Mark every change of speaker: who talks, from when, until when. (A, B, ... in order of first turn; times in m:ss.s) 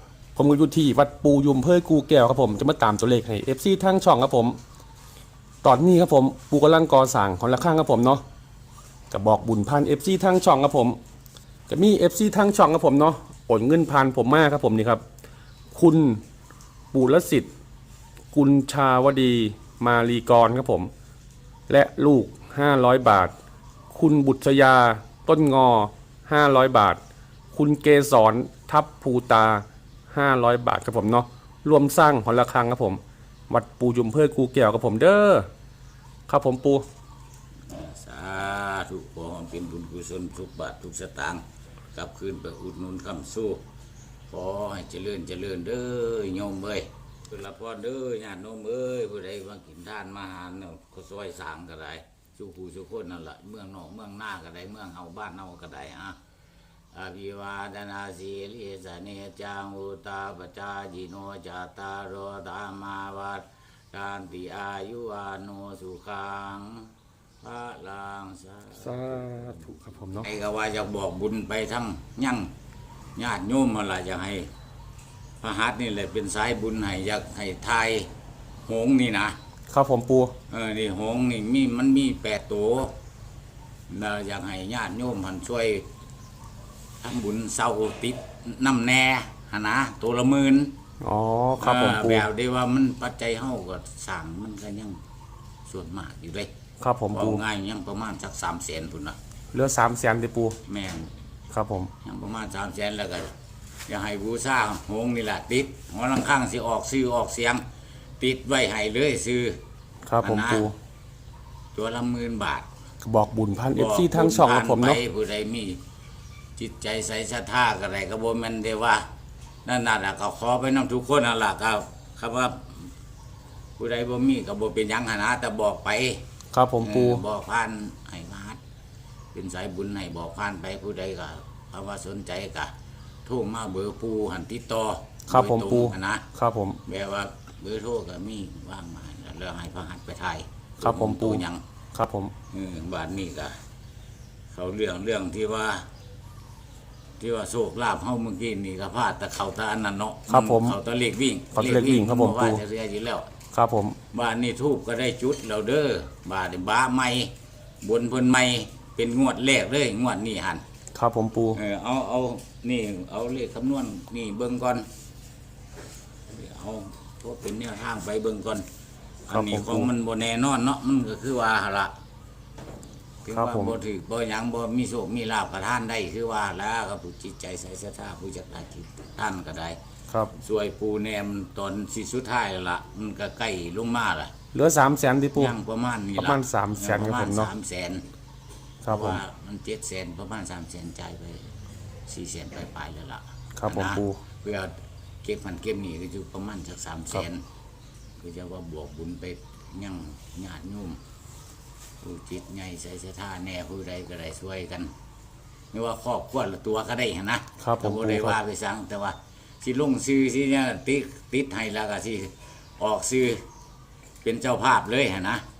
0:00.4-0:04.6 A
0:05.6-0:08.2 A
0:09.1-0:11.0 A
0:11.7-0:15.0 A
0:15.7-0:16.2 A
0:16.9-0:17.5 A
0:18.3-0:20.9 A
0:21.7-0:23.3 A
0:23.9-0:27.0 A
0:27.5-0:35.5 A
0:36.3-0:36.8 A
0:37.7-0:41.4 B
0:41.9-0:43.6 B
0:44.3-0:56.2 B
0:56.9-1:09.7 B
1:08.8-1:10.3 A
1:10.2-1:12.5 B
1:13.2-1:14.5 B
1:15.4-1:18.1 B
1:18.6-1:19.4 B
1:19.7-1:20.3 A
1:20.5-1:23.0 B
1:23.9-1:25.9 B
1:27.0-1:30.7 B
1:31.0-1:32.3 A
1:31.6-1:35.0 B
1:35.6-1:36.5 B
1:36.8-1:37.4 A
1:37.1-1:39.2 B
1:39.5-1:40.6 A
1:40.6-1:41.1 B
1:41.5-1:41.9 A
1:42.0-1:43.3 B
1:43.9-1:47.6 B
1:48.2-1:49.6 B
1:50.0-1:50.7 A
1:50.2-1:50.7 B
1:51.7-1:52.7 B
1:53.0-1:55.0 A
1:53.7-1:55.8 B
1:56.6-1:59.0 B
1:59.6-2:02.8 B
2:03.8-2:06.2 B
2:06.5-2:07.2 A
2:06.8-2:08.6 B
2:09.3-2:12.7 B
2:13.2-2:16.2 B
2:15.3-2:16.8 A
2:16.8-2:21.6 B
2:20.8-2:22.3 A
2:22.5-2:23.5 B
2:24.5-2:25.9 B
2:27.2-2:33.3 B
2:30.3-2:30.8 A
2:31.5-2:32.6 A
2:33.5-2:34.0 A
2:34.1-2:40.6 B
2:40.9-2:41.6 A
2:41.5-2:44.9 B
2:46.3-2:48.6 B
2:49.3-2:49.9 A
2:49.3-2:51.9 B
2:53.2-2:59.8 B
2:53.3-2:53.7 A
3:00.4-3:04.3 B
3:04.5-3:05.5 A
3:05.3-3:08.0 B
3:06.2-3:07.5 A
3:08.8-3:09.2 A
3:08.9-3:11.5 B
3:12.1-3:17.4 B
3:13.6-3:14.2 A
3:18.2-3:21.0 B
3:22.0-3:24.9 B
3:25.7-3:33.4 B
3:27.6-3:28.4 A
3:34.2-3:35.4 B